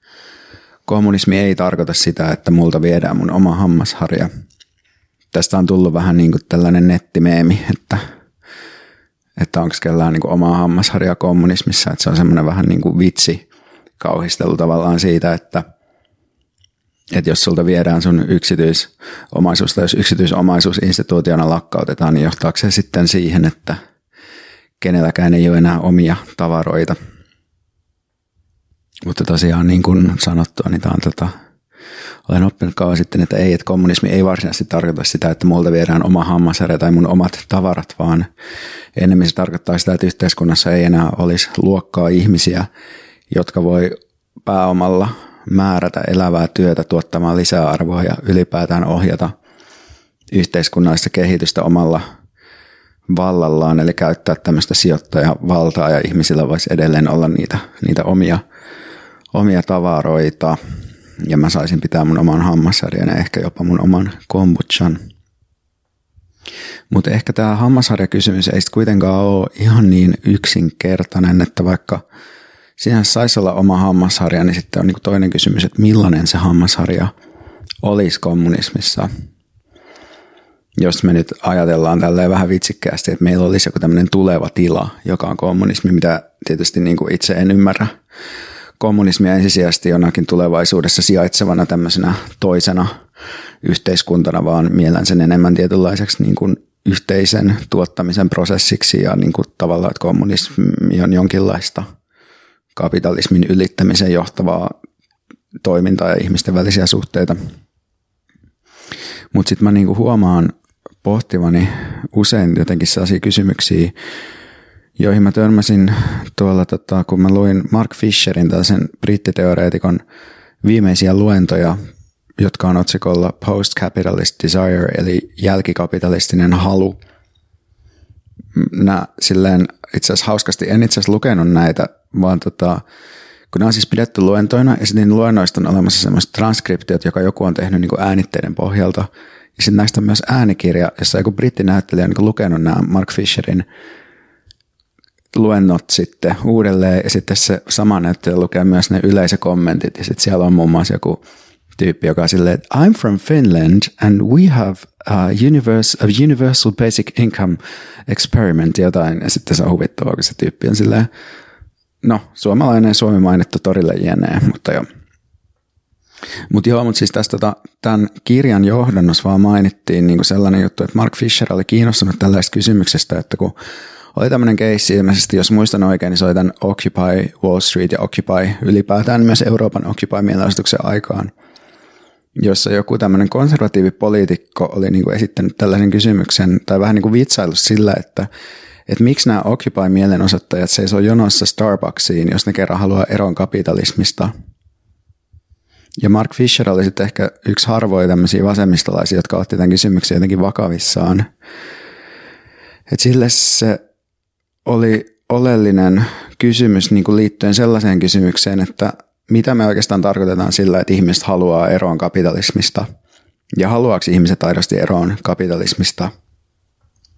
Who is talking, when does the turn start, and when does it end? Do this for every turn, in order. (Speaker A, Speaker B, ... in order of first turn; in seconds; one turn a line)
Speaker A: 0.9-4.3
Speaker A: 5.3-8.0
Speaker A: 9.4-13.4
Speaker A: 14.0-15.6
Speaker A: 17.1-23.8
Speaker A: 24.8-26.9
Speaker A: 29.0-31.3
Speaker A: 32.3-38.3
Speaker A: 39.0-42.7
Speaker A: 43.3-49.3
Speaker A: 50.3-52.0
Speaker A: 53.1-58.4
Speaker A: 59.3-60.6
Speaker A: 61.2-65.0
Speaker A: 66.9-72.0
Speaker A: 72.8-77.1
Speaker A: 77.8-79.1
Speaker A: 80.8-87.9
Speaker A: 88.8-92.9
Speaker A: 93.6-101.8
Speaker A: 102.7-104.8
Speaker A: 105.6-107.4
Speaker A: 109.3-113.9
Speaker A: 115.0-120.0
Speaker A: 120.6-121.8
Speaker A: 122.4-127.0
Speaker A: 128.5-132.8
Speaker A: 133.5-143.7
Speaker A: 145.3-151.2
Speaker A: 151.8-161.1
Speaker A: 162.0-164.9
Speaker A: 166.5-173.5
Speaker A: 174.1-181.3
Speaker A: 182.4-188.3
Speaker A: 188.9-194.3
Speaker A: 196.0-201.3
Speaker A: 202.9-203.8
Speaker A: 204.7-212.8
Speaker A: 213.5-216.1